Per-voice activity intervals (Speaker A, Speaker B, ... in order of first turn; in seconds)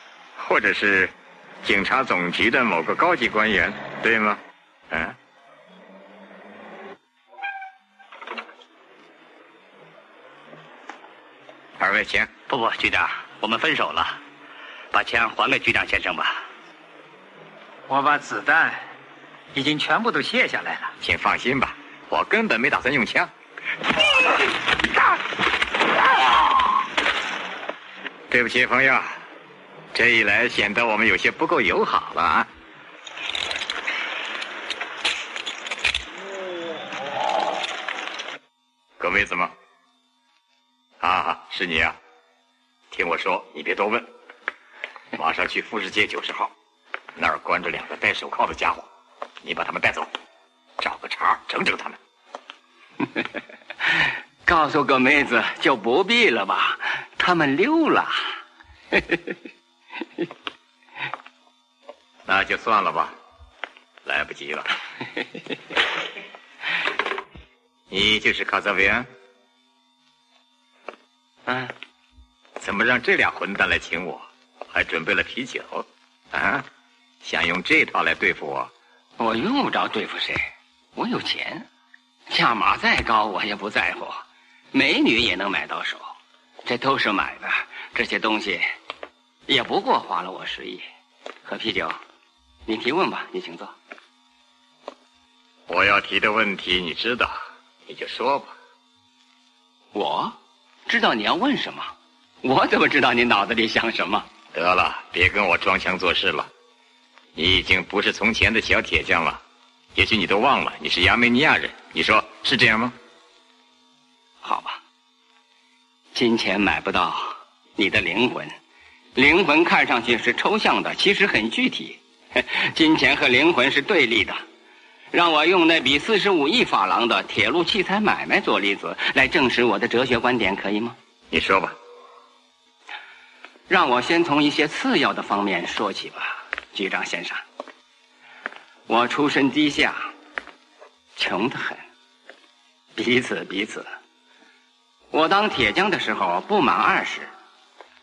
Speaker A: 0.4-5.2, 11.8-12.3, 21.0-23.3, 28.3-29.2, 29.9-32.5, 39.0-39.5, 41.0-42.0, 42.9-44.1, 45.1-46.5, 47.1-48.9, 49.4-50.1, 50.8-52.0, 62.2-63.1, 64.0-64.7, 67.9-69.1, 72.6-76.7, 77.2-78.7, 95.7-98.5, 104.5-106.5, 107.3-109.4, 109.9-112.9, 131.3-131.8
Speaker B: 12.5-14.2, 14.9-16.4
Speaker C: 17.9-18.8, 19.5-20.9
Speaker D: 54.4-58.3, 58.9-59.2, 79.2-81.7, 82.3-86.1, 86.6-88.7, 89.5-90.8, 91.4-92.0, 92.7-93.8, 99.9-104.3, 114.4-114.8, 116.1-118.5, 119.1-124.4, 125.1-130.9, 133.7-137.4, 138.9-140.1, 141.2-141.8, 142.9-143.9, 145.1-147.3